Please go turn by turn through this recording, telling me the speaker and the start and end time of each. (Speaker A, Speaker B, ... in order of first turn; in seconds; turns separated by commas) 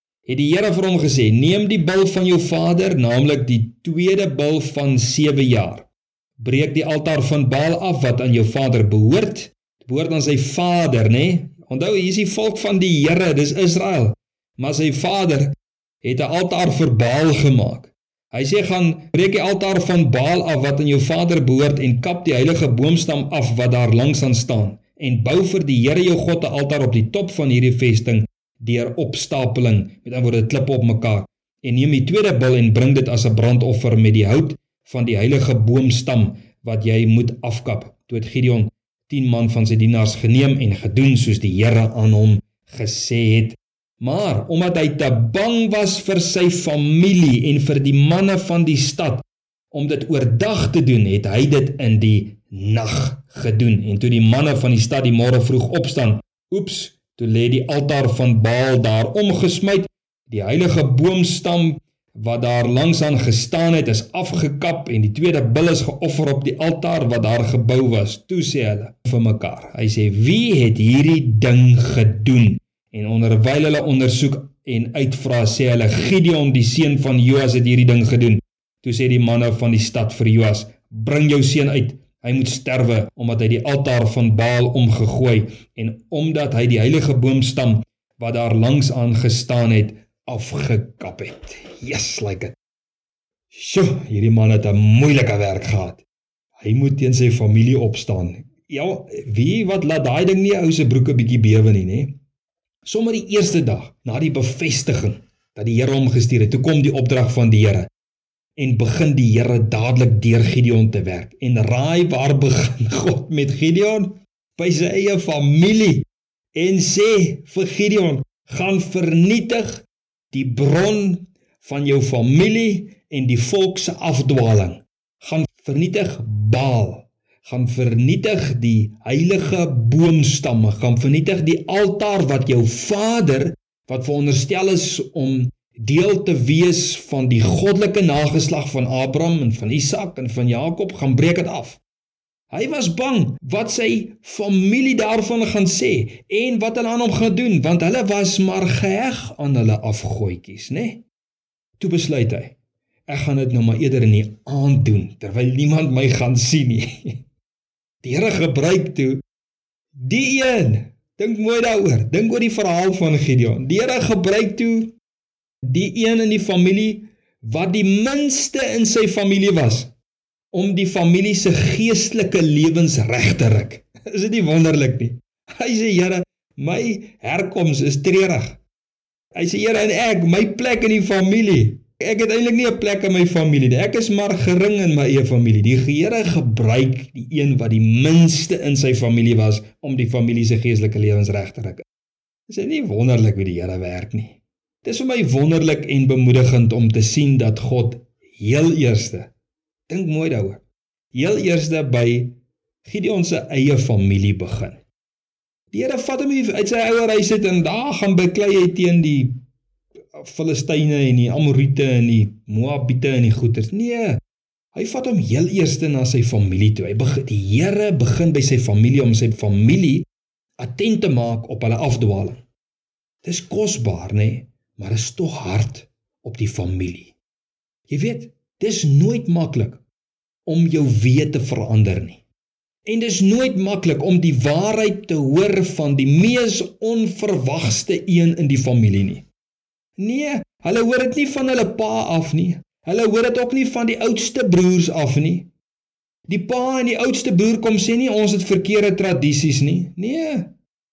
Speaker A: 0.3-92.6, Speaker A: 93.5-96.0, Speaker A: 96.6-102.2, Speaker A: 102.8-107.9, Speaker A: 108.6-141.8, Speaker A: 142.5-151.1, Speaker A: 151.8-152.6, Speaker A: 153.1-157.2, Speaker A: 158.0-159.2, Speaker A: 159.9-165.0, Speaker A: 165.6-169.9, Speaker A: 170.5-178.6, Speaker A: 179.3-191.8, Speaker A: 192.5-199.3, Speaker A: 199.9-200.6, Speaker A: 201.1-204.8, Speaker A: 205.7-209.4, Speaker A: 210.2-214.2, Speaker A: 214.7-220.1, Speaker A: 220.6-222.4, Speaker A: 223.2-227.2, Speaker A: 227.9-229.8, Speaker A: 230.5-232.2, Speaker A: 232.9-239.3, Speaker A: 240.0-245.5, Speaker A: 246.3-250.6